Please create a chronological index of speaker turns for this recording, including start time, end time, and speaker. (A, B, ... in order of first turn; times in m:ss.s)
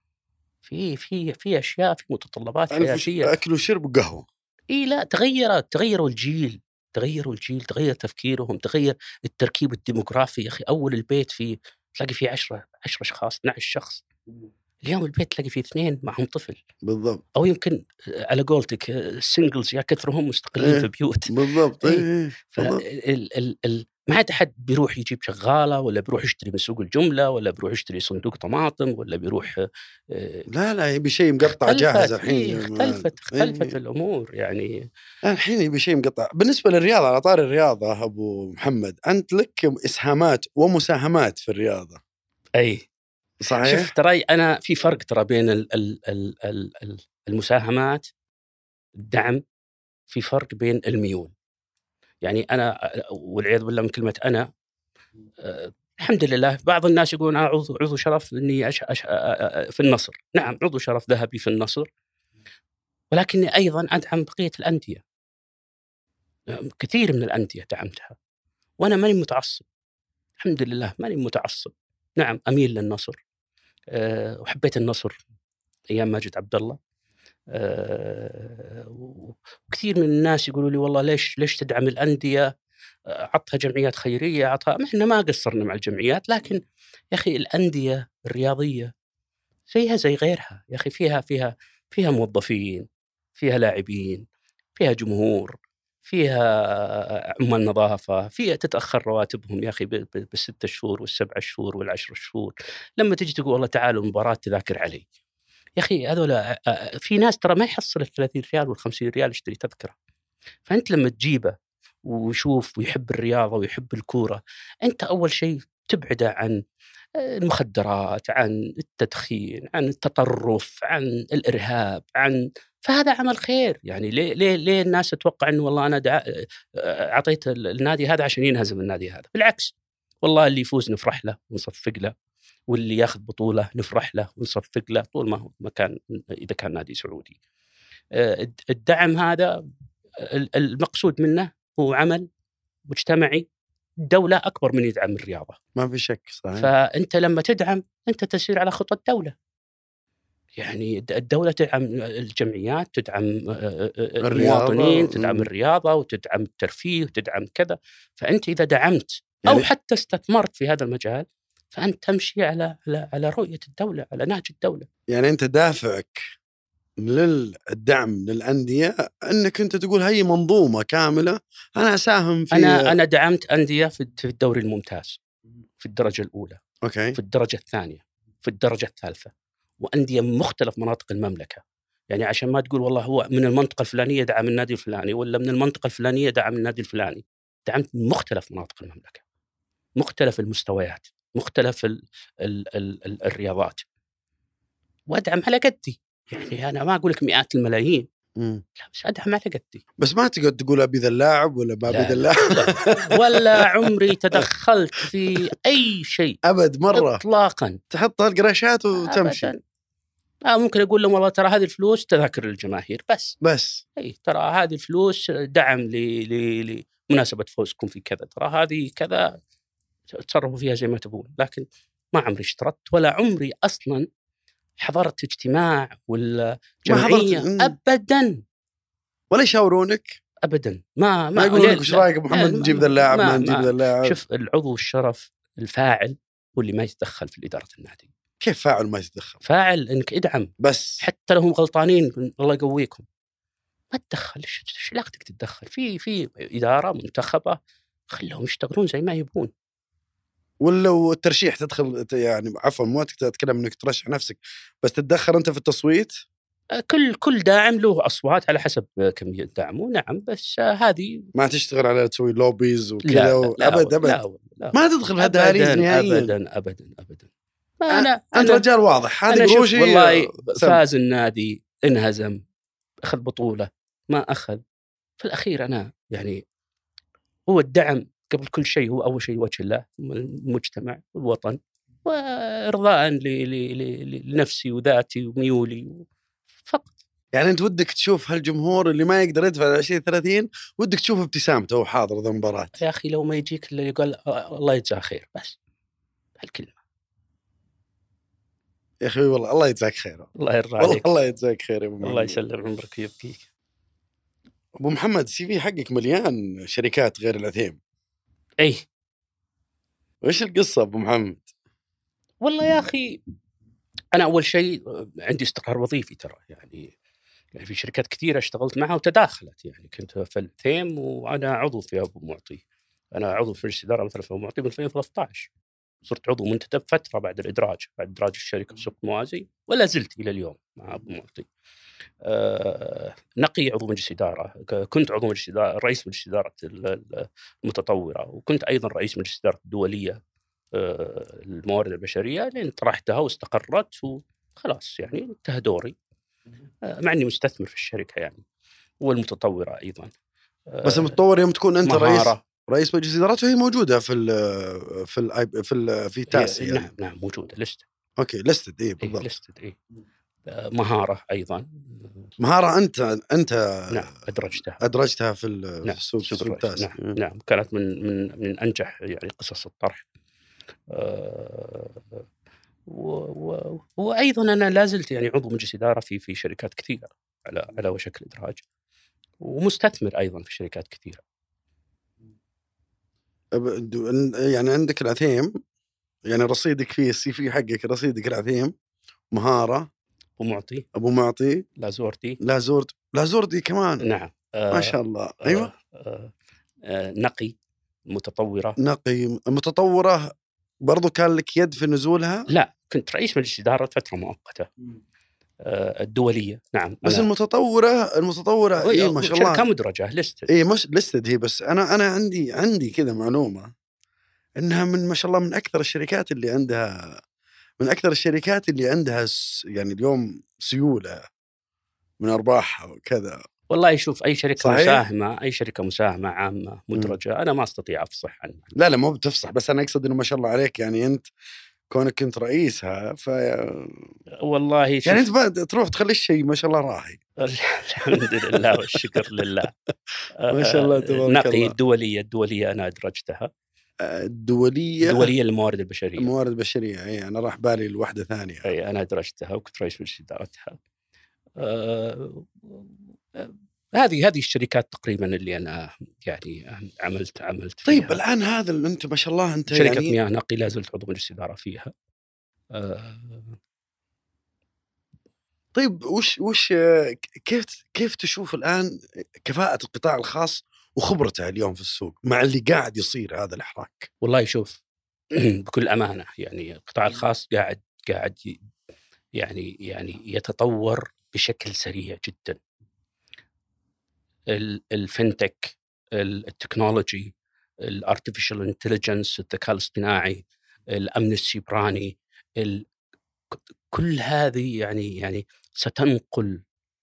0:00.6-0:03.3 A
0:02.7-0:04.2 B
0:04.7-0:14.0 A
0:14.8-0:16.6 A
0:16.8-0:17.2 B
0:17.3-0:30.5 A
0:20.6-0:22.8 B
0:30.5-0:33.7 B
0:31.4-0:34.9 A
0:35.2-0:42.0 B
0:42.6-0:42.8 A
0:43.4-0:43.9 B
0:43.5-0:48.1 A
0:49.0-0:49.4 A
0:50.1-0:51.3 A
0:52.2-0:54.5 A
0:55.4-1:01.9 A
1:03.1-1:05.0 A
1:06.5-1:08.2 A
1:08.8-1:09.6 A
1:10.4-1:13.2 A
1:13.9-1:15.2 A
1:15.9-1:16.8 A
1:17.5-1:22.5 A
1:23.1-1:28.9 A
1:29.7-1:34.2 A
1:34.8-1:45.0 A
1:45.8-1:49.9 A
1:50.7-1:56.6 A
1:57.2-2:12.1 A
2:12.7-2:17.4 A
2:18.1-2:19.6 A
2:20.2-2:22.2 A
2:22.9-2:23.4 A
2:24.0-2:25.6 A
2:25.8-2:26.7 B
2:26.6-2:29.3 A
2:30.6-2:44.9 A
2:34.2-2:35.5 B
2:45.1-2:46.2 B
2:47.0-2:52.9 B
2:52.5-2:55.2 A
2:55.8-2:56.6 A
2:56.8-2:57.2 B
2:57.2-3:09.2 A
3:10.0-3:13.8 A
3:15.1-3:18.0 A
3:18.4-3:18.6 B
3:18.8-3:19.8 A
3:20.0-3:24.4 B
3:21.9-3:26.4 A
3:26.4-3:27.2 B
3:26.9-3:27.8 A
3:27.9-3:29.5 B
3:29.1-3:29.6 A
3:30.5-3:33.4 A
3:33.4-3:33.8 B
3:34.0-3:39.4 A
3:40.1-3:44.1 A
3:44.8-3:48.4 A
3:46.9-3:47.7 B
3:49.3-3:50.2 B
3:50.4-3:58.1 A
3:51.4-3:54.2 B
3:58.4-3:59.4 B
3:59.4-4:03.0 A
4:00.6-4:01.0 B
4:03.9-4:07.6 A
4:08.1-4:09.5 A
4:10.6-4:16.2 B
4:16.7-4:21.3 A
4:21.3-4:24.2 B
4:23.0-4:27.3 A
4:24.7-4:26.3 B
4:27.8-4:28.6 A
4:27.9-4:30.8 B
4:29.3-4:32.4 A
4:33.0-4:34.6 A
4:35.2-4:36.4 A
4:37.5-4:46.0 A
4:46.7-4:47.0 A
4:47.3-4:52.7 B
4:52.8-4:55.6 A
4:56.4-4:56.8 A
4:59.0-5:00.3 B
5:00.4-5:01.1 A
5:00.8-5:02.4 B
5:02.0-5:03.4 A
5:04.8-5:07.8 B
5:10.2-5:11.5 B
5:12.4-5:13.2 A
5:14.1-5:16.9 A
5:17.5-5:22.6 A
5:23.1-5:25.5 A
5:26.0-5:31.5 A
5:32.2-5:40.2 A
5:40.7-5:45.9 A
5:46.8-5:48.4 A
5:49.0-5:50.1 A
5:50.7-5:51.2 A
5:50.8-5:56.9 B
5:51.8-5:52.4 A
5:56.3-5:57.8 A
5:58.2-5:59.3 B
5:59.0-5:59.8 A
6:00.5-6:02.3 A
6:02.4-6:04.1 B
6:03.9-6:04.8 A
6:04.8-6:07.1 B
6:05.8-6:10.0 A
6:10.9-6:12.2 A
6:12.9-6:18.6 A
6:19.4-6:21.2 A
6:23.5-6:25.5 B
6:26.3-6:28.7 B
6:29.3-6:29.9 B
6:30.4-6:30.8 A
6:30.9-6:31.6 B
6:31.8-6:32.4 A
6:32.4-6:34.1 B
6:34.0-6:36.3 A
6:34.7-6:35.7 B
6:36.8-6:37.5 A
6:38.1-6:38.8 A
6:38.8-6:42.4 B
6:42.5-6:44.7 A
6:45.6-6:47.3 A
6:47.0-6:49.6 B
6:48.8-6:50.5 A
6:50.5-6:53.7 B
6:54.6-6:57.2 B
6:57.8-7:01.2 B
7:02.2-7:03.4 B
7:03.7-7:08.7 A
7:04.6-7:05.0 B
7:08.7-7:11.2 B
7:11.9-7:14.1 B
7:14.4-7:15.2 A
7:15.0-7:17.2 B
7:17.4-7:19.7 A
7:18.1-7:19.7 B
7:20.4-7:23.5 A
7:20.5-7:21.7 B
7:24.0-7:25.3 B
7:25.0-7:26.3 A
7:26.2-7:28.7 B
7:28.6-7:30.8 A
7:31.6-7:38.2 A
7:37.8-7:40.2 B
7:39.7-7:41.9 A
7:42.7-7:43.6 A
7:45.7-7:54.1 B
7:54.2-7:54.8 A
7:55.3-7:58.6 A
7:59.4-8:02.6 A
8:04.5-8:07.3 A
8:07.8-8:12.8 A
8:13.5-8:16.6 A